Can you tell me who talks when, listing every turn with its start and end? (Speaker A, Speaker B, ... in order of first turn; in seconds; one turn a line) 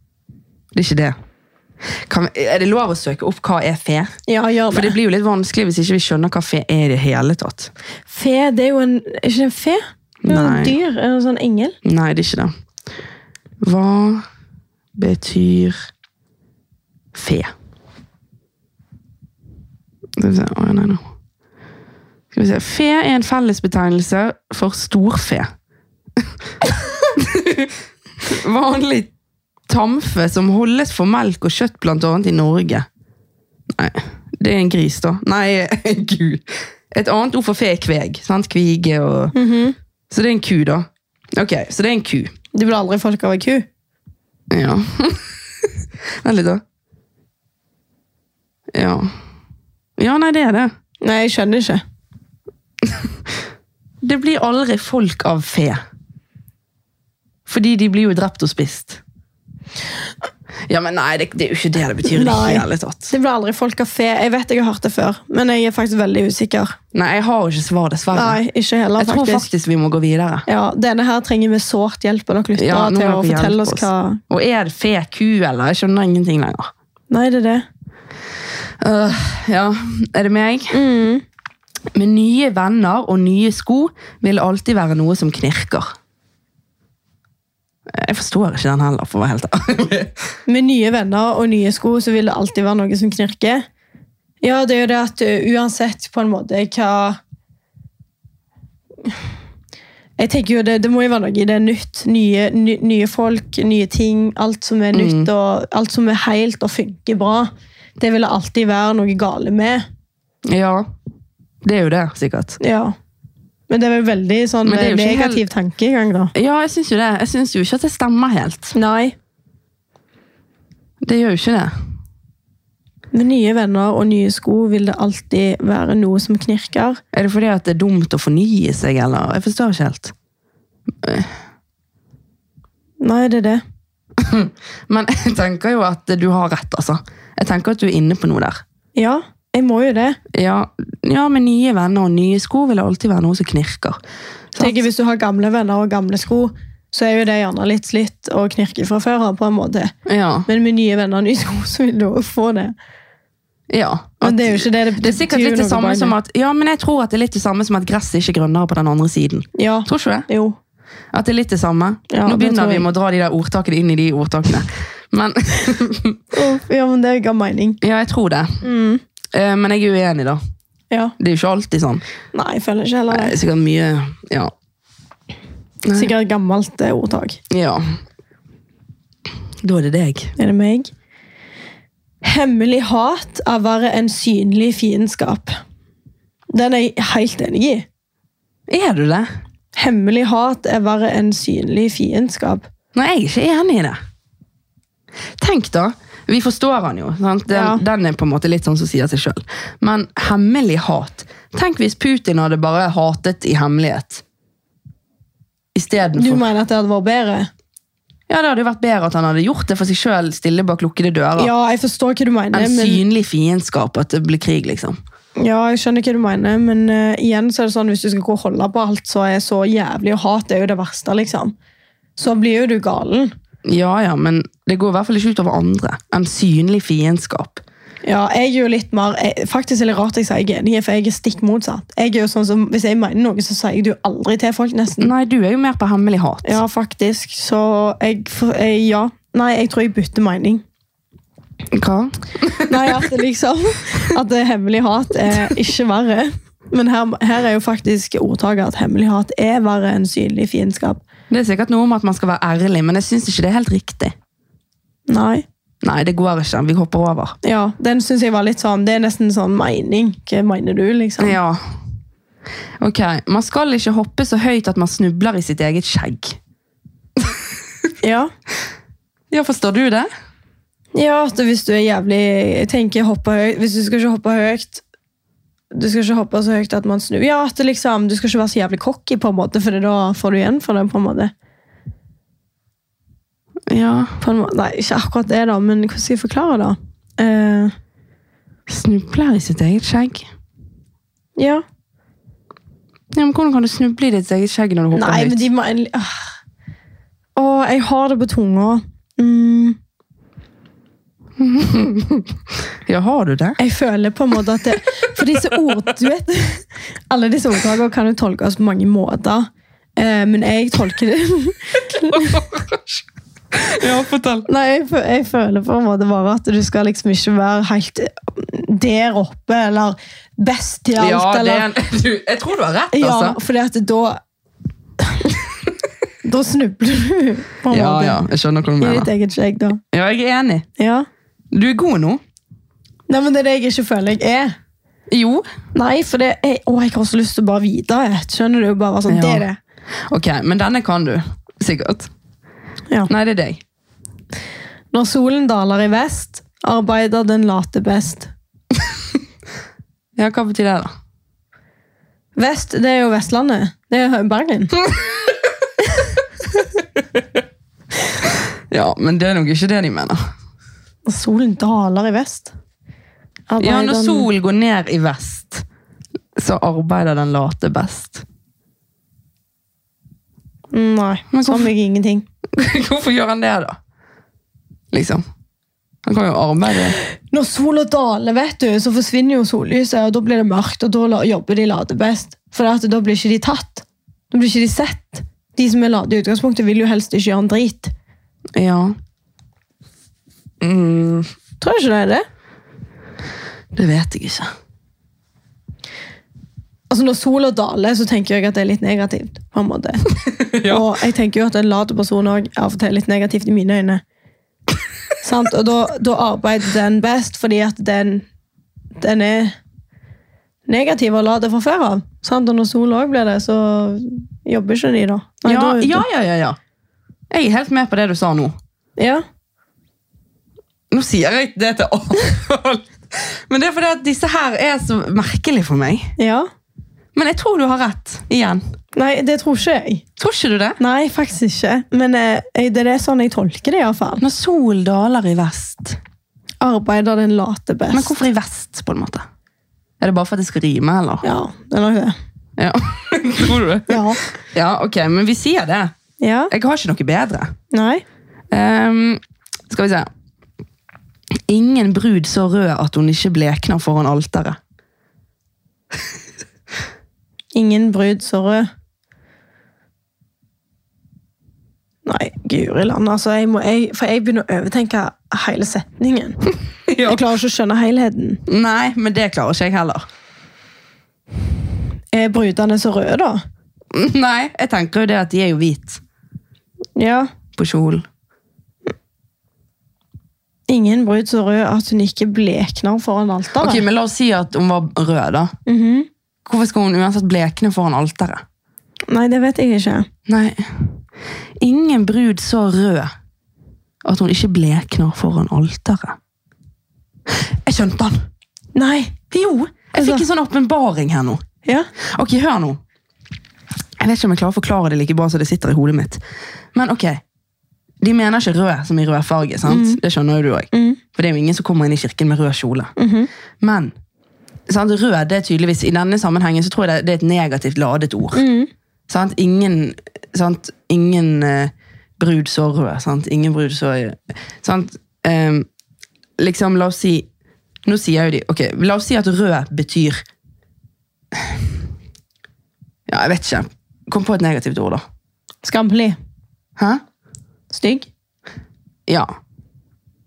Speaker A: 0.7-1.1
Speaker A: 2.1-4.1
Speaker B: 4.3-5.0
Speaker A: 4.7-7.7
Speaker B: 8.1-11.8
Speaker A: 10.2-10.8
Speaker A: 11.8-12.5
Speaker A: 13.6-14.2
Speaker A: 14.9-15.8
Speaker A: 17.1-17.5
Speaker A: 20.2-21.0
Speaker A: 22.3-25.5
Speaker A: 26.2-29.1
Speaker A: 29.7-32.9
Speaker A: 33.7-39.3
Speaker B: 39.3-39.8
Speaker A: 40.1-42.3
Speaker B: 42.5-43.7
Speaker A: 44.5-45.7
Speaker A: 46.2-46.6
Speaker A: 48.7-49.1
Speaker A: 50.0-50.7
Speaker B: 51.0-51.8
Speaker A: 52.8-53.1
Speaker A: 54.0-55.8
Speaker A: 57.5-59.0
Speaker A: 60.7-63.1
Speaker B: 62.0-66.8
Speaker A: 66.9-68.4
Speaker B: 68.1-69.5
Speaker A: 69.0-70.5
Speaker B: 70.5-74.2
Speaker A: 72.5-76.7
Speaker B: 77.1-77.6
Speaker A: 78.8-80.8
Speaker B: 80.7-81.2
Speaker A: 81.9-85.9
Speaker A: 87.9-90.2
Speaker B: 90.5-93.6
Speaker B: 94.4-97.2
Speaker B: 100.2-109.8
Speaker A: 104.9-105.3
Speaker A: 110.4-110.9
Speaker A: 111.6-112.6
Speaker B: 112.6-112.9
Speaker B: 113.7-116.3
Speaker A: 114.6-115.4
Speaker A: 116.3-118.7
Speaker B: 118.7-119.1
Speaker A: 121.0-121.7
Speaker B: 123.1-127.0
Speaker A: 127.1-130.1
Speaker A: 131.0-131.4
Speaker B: 133.0-133.6
Speaker A: 134.2-138.6
Speaker B: 138.9-140.2
Speaker A: 140.3-144.0
Speaker A: 144.5-144.8
Speaker B: 144.6-149.9
Speaker A: 150.1-150.5
Speaker B: 150.5-152.7
Speaker A: 153.7-160.3
Speaker B: 154.2-156.1
Speaker B: 159.5-160.6
Speaker A: 161.1-166.2
Speaker B: 162.1-162.9
Speaker B: 166.3-167.8
Speaker A: 167.8-168.6
Speaker B: 168.6-169.0
Speaker A: 169.3-170.4
Speaker A: 171.2-172.0
Speaker B: 172.3-173.3
Speaker A: 173.1-174.5
Speaker A: 175.8-176.1
Speaker B: 175.9-177.4
Speaker A: 177.5-177.8
Speaker A: 179.6-180.3
Speaker B: 180.4-180.9
Speaker B: 182.2-185.6
Speaker B: 186.5-187.8
Speaker A: 188.7-189.3
Speaker B: 189.7-192.7
Speaker A: 192.9-194.0
Speaker A: 195.4-204.2
Speaker B: 197.5-197.8
Speaker A: 205.7-206.4
Speaker B: 206.1-207.5
Speaker A: 208.3-211.5
Speaker B: 211.3-213.0
Speaker A: 212.5-215.0
Speaker B: 215.4-221.5
Speaker B: 222.2-223.3
Speaker A: 223.7-227.6
Speaker B: 228.0-235.1
Speaker A: 235.0-236.6
Speaker B: 236.4-240.6
Speaker A: 241.7-243.1
Speaker B: 242.6-251.0
Speaker A: 251.3-254.1
Speaker B: 255.1-255.4
Speaker A: 255.8-257.3
Speaker B: 257.4-261.4
Speaker A: 261.2-261.6
Speaker A: 262.8-266.4
Speaker A: 267.2-267.5
Speaker B: 268.0-268.3
Speaker A: 269.3-270.1
Speaker B: 270.9-274.8
Speaker B: 275.7-281.3
Speaker A: 283.7-284.1
Speaker B: 284.2-287.7
Speaker A: 288.7-290.3
Speaker B: 291.4-291.6
Speaker A: 293.1-295.4
Speaker B: 294.9-296.1
Speaker B: 297.4-299.8
Speaker A: 301.4-303.6
Speaker B: 303.6-312.4
Speaker A: 311.9-314.5
Speaker B: 314.5-321.7
Speaker A: 320.9-323.4
Speaker B: 322.9-324.2
Speaker B: 325.0-325.4
Speaker B: 326.2-328.2
Speaker A: 327.7-329.1
Speaker B: 328.8-329.8
Speaker A: 329.9-330.7
Speaker B: 330.8-331.1
Speaker A: 331.5-332.2
Speaker B: 333.1-334.5
Speaker A: 335.1-335.4
Speaker B: 335.7-339.6
Speaker A: 339.1-339.4
Speaker A: 340.1-342.1
Speaker A: 343.1-343.6
Speaker B: 344.9-348.3
Speaker A: 350.1-350.9
Speaker B: 352.4-354.8
Speaker A: 354.9-355.3
Speaker A: 358.2-360.2
Speaker B: 361.1-362.5
Speaker B: 363.5-364.3
Speaker A: 363.6-365.6
Speaker A: 366.4-368.2
Speaker B: 370.7-372.2
Speaker A: 371.3-371.7
Speaker A: 372.5-373.8
Speaker A: 374.9-375.2
Speaker A: 376.0-376.9
Speaker B: 377.0-387.9
Speaker A: 388.5-388.9
Speaker A: 390.6-391.3
Speaker B: 391.6-392.2
Speaker A: 393.7-394.5
Speaker B: 396.9-400.0
Speaker A: 400.2-400.9
Speaker B: 400.6-404.0
Speaker B: 405.2-408.2
Speaker B: 409.0-409.6
Speaker B: 410.7-416.0
Speaker A: 415.4-416.6
Speaker A: 417.3-418.5
Speaker B: 419.0-419.2
Speaker A: 420.9-426.1
Speaker B: 426.2-426.5
Speaker A: 427.1-428.6
Speaker B: 428.9-430.0
Speaker A: 430.2-430.8
Speaker B: 430.8-434.2
Speaker A: 434.2-436.0
Speaker B: 436.6-438.1
Speaker A: 437.9-439.2
Speaker A: 440.0-441.2
Speaker B: 441.2-442.1
Speaker A: 442.6-445.9
Speaker B: 443.9-444.2
Speaker B: 446.2-446.5
Speaker A: 446.5-447.5
Speaker B: 447.7-448.0
Speaker A: 448.5-450.1
Speaker A: 451.5-454.6
Speaker B: 457.5-458.7
Speaker B: 462.1-466.4
Speaker A: 466.9-467.2
Speaker B: 467.0-468.4
Speaker A: 468.5-470.0
Speaker B: 472.1-473.4
Speaker A: 473.9-476.0
Speaker B: 476.9-477.3
Speaker A: 477.6-478.1
Speaker B: 480.7-483.8
Speaker A: 483.6-485.5
Speaker B: 485.6-486.1
Speaker A: 486.4-488.4
Speaker B: 489.1-490.1
Speaker A: 490.3-490.9
Speaker A: 491.6-493.1
Speaker A: 494.0-496.2
Speaker A: 497.3-498.2
Speaker B: 498.7-499.2
Speaker A: 499.3-501.4
Speaker B: 499.9-500.2
Speaker A: 502.0-502.8
Speaker A: 504.0-506.2
Speaker A: 506.7-507.2
Speaker A: 508.0-512.9
Speaker B: 509.6-510.0
Speaker B: 510.7-511.0
Speaker B: 513.0-513.3
Speaker A: 513.6-513.9
Speaker A: 514.7-518.4
Speaker B: 518.3-518.7
Speaker A: 519.1-525.7
Speaker A: 526.4-527.3
Speaker A: 527.8-530.2
Speaker A: 531.3-531.6
Speaker A: 533.1-535.0
Speaker B: 535.6-536.2
Speaker A: 536.8-537.0
Speaker B: 537.7-538.1